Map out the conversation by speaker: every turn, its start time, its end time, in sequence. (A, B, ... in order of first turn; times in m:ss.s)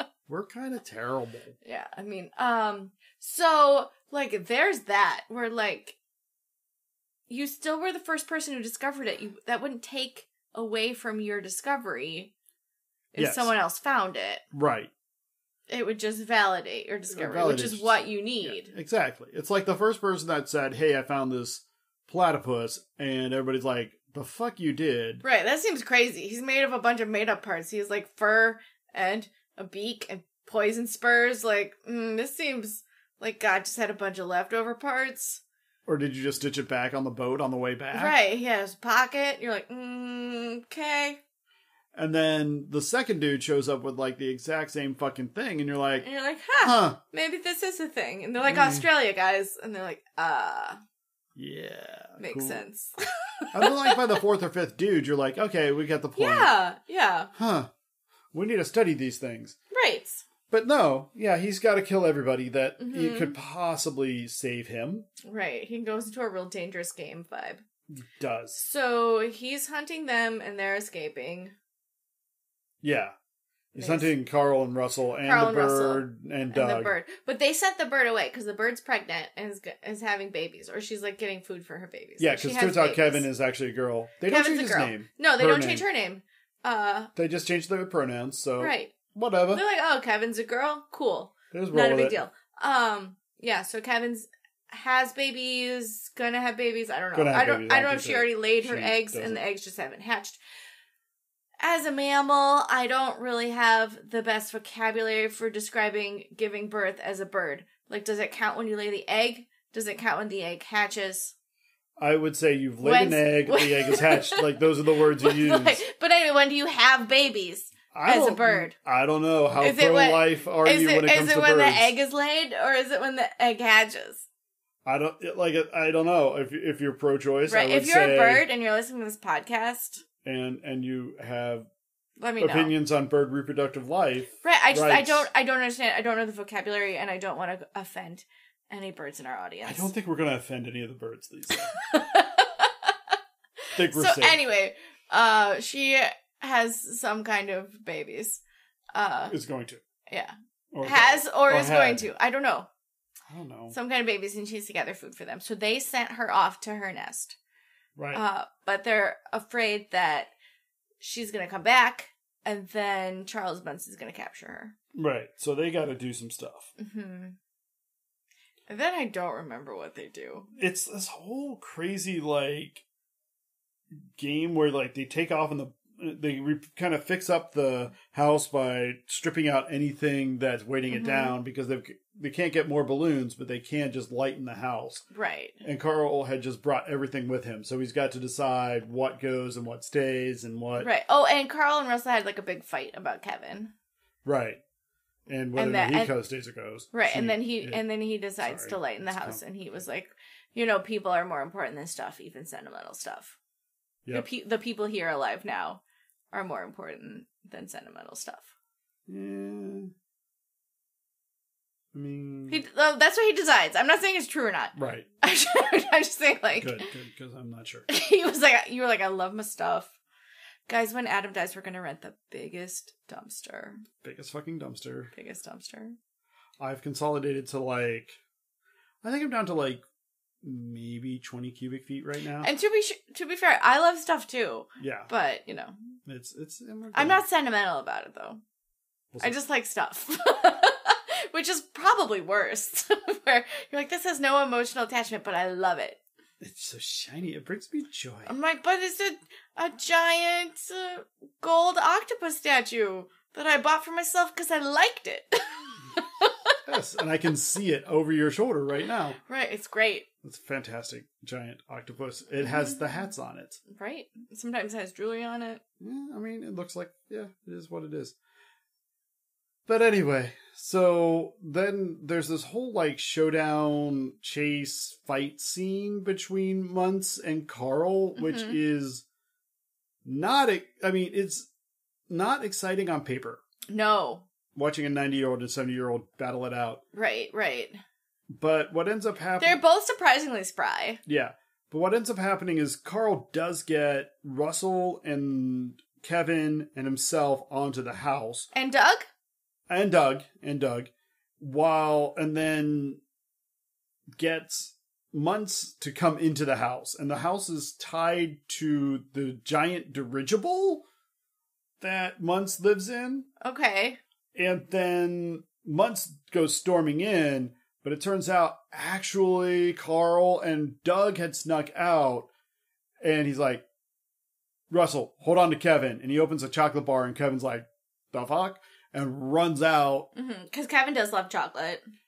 0:00.3-0:01.6 A
0:01.6-0:06.0 B
0:07.3-0:12.3 B
0:13.1-0:14.4 B
0:13.2-0:13.5 A
0:14.5-0:14.9 A
0:15.7-0:18.7 B
0:17.1-0:25.2 A
0:25.2-0:35.4 B
0:35.9-0:38.1 A
0:37.9-0:41.2 B
0:41.9-0:46.0 A
0:46.0-0:50.8 B
0:46.6-0:47.0 A
0:48.4-0:48.9 A
0:51.4-0:52.6 A
0:52.2-0:54.2 B
0:53.5-0:56.5 A
0:56.2-0:57.3 B
0:57.3-0:57.7 A
0:58.3-0:59.6 A
0:59.7-1:00.2 B
1:00.5-1:05.1 A
1:02.8-1:03.4 B
1:05.2-1:07.6 B
1:07.9-1:08.6 A
1:08.6-1:11.6 B
1:12.8-1:13.1 A
1:13.7-1:16.9 A
1:13.8-1:14.1 B
1:15.2-1:23.3 B
1:22.2-1:25.8 A
1:24.3-1:27.1 B
1:27.2-1:29.6 A
1:28.6-1:28.9 B
1:29.5-1:40.4 B
1:31.5-1:32.2 A
1:37.1-1:39.4 A
1:41.6-1:51.3 B
1:52.0-1:55.8 A
1:52.8-1:58.7 B
1:57.9-2:01.9 A
1:59.6-2:04.2 B
2:04.8-2:08.4 A
2:07.5-2:10.0 B
2:10.2-2:11.7 A
2:12.2-2:12.7 B
2:12.4-2:15.3 A
2:14.4-2:19.9 B
2:19.7-2:21.7 A
2:21.6-2:23.2 B
2:23.8-2:24.4 A
2:23.9-2:28.4 B
2:28.9-2:29.4 B
2:29.3-2:29.8 A
2:30.1-2:32.7 B
2:30.7-2:32.1 A
2:33.3-2:33.8 A
2:33.7-2:37.4 B
2:38.0-2:38.2 A
2:38.1-2:40.3 B
2:41.0-2:44.7 B
2:45.0-2:46.7 A
2:46.8-2:47.4 B
2:48.7-2:50.5 B
2:50.6-2:52.8 A
2:54.0-3:05.0 A
3:00.9-3:01.4 B
3:05.1-3:05.6 B
3:05.6-3:10.9 A
3:10.8-3:13.7 B
3:14.2-3:14.6 A
3:15.3-3:17.8 A
3:15.6-3:16.1 B
3:16.9-3:23.3 B
3:18.4-3:19.4 A
3:24.1-3:25.8 B
3:26.3-3:28.5 B
3:29.1-3:29.9 A
3:31.9-3:32.6 A
3:32.5-3:36.9 B
3:34.8-3:35.1 A
3:36.6-3:37.9 A
3:37.9-3:39.9 B
3:40.7-3:43.8 B
3:44.0-3:45.1 A
3:45.1-3:46.0 B
3:46.6-3:48.2 A
3:49.0-3:49.8 A
3:50.4-3:52.5 A
3:52.4-3:55.7 B
3:54.8-3:55.1 A
3:56.1-3:57.2 A
3:56.9-3:58.4 B
3:59.1-3:59.4 A
3:59.2-4:06.0 B
4:06.4-4:08.3 A
4:08.3-4:16.6 B
4:16.7-4:19.2 A
4:19.2-4:20.0 B
4:20.2-4:23.6 A
4:22.5-4:22.8 B
4:23.7-4:25.6 B
4:25.8-4:28.2 A
4:29.7-4:39.0 A
4:38.2-4:38.6 B
4:40.0-4:41.5 A
4:42.1-4:43.4 A
4:43.7-4:44.3 B
4:44.6-4:46.8 A
4:46.9-4:47.8 B
4:48.3-4:49.6 A
4:49.4-4:51.0 B
4:51.0-4:58.5 A
4:58.5-4:59.1 B
4:59.7-5:03.0 A
5:04.2-5:10.9 A
5:11.8-5:13.3 A
5:13.4-5:14.0 B
5:14.3-5:22.3 A
5:23.0-5:23.6 A
5:24.7-5:30.1 A
5:30.1-5:31.9 B